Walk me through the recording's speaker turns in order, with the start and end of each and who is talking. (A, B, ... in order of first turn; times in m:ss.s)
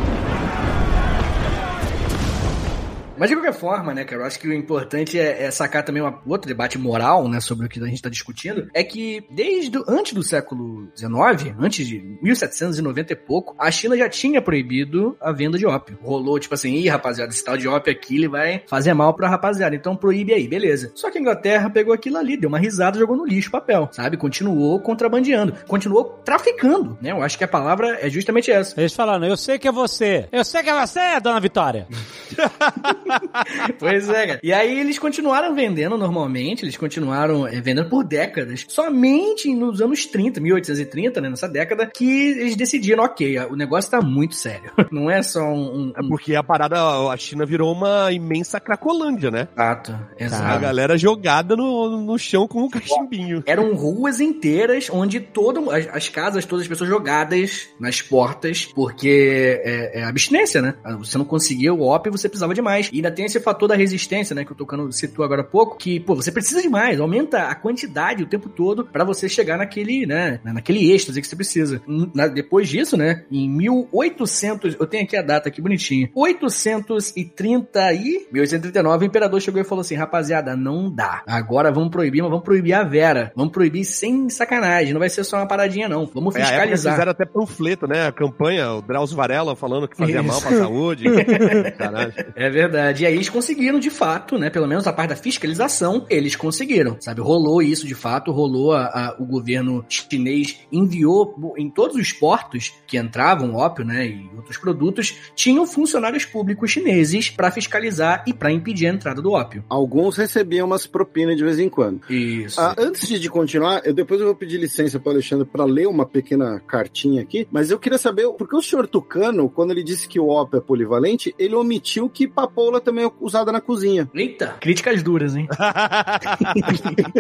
0:03.2-0:28.8 A
0:28.8-0:31.9 B
0:32.4-0:33.2 C
0:32.8-0:46.2 A
0:46.0-0:49.5 C
0:49.6-0:50.7 A
0:50.3-0:50.7 B
0:50.4-0:53.5 C
0:52.9-1:27.1 A
1:26.4-1:32.2 C
1:30.0-1:49.6 A
1:49.7-1:52.1 D
1:52.1-1:52.8 A
1:52.6-2:04.1 D
2:04.1-2:05.5 A
2:05.6-2:06.8 C
2:06.3-2:07.1 A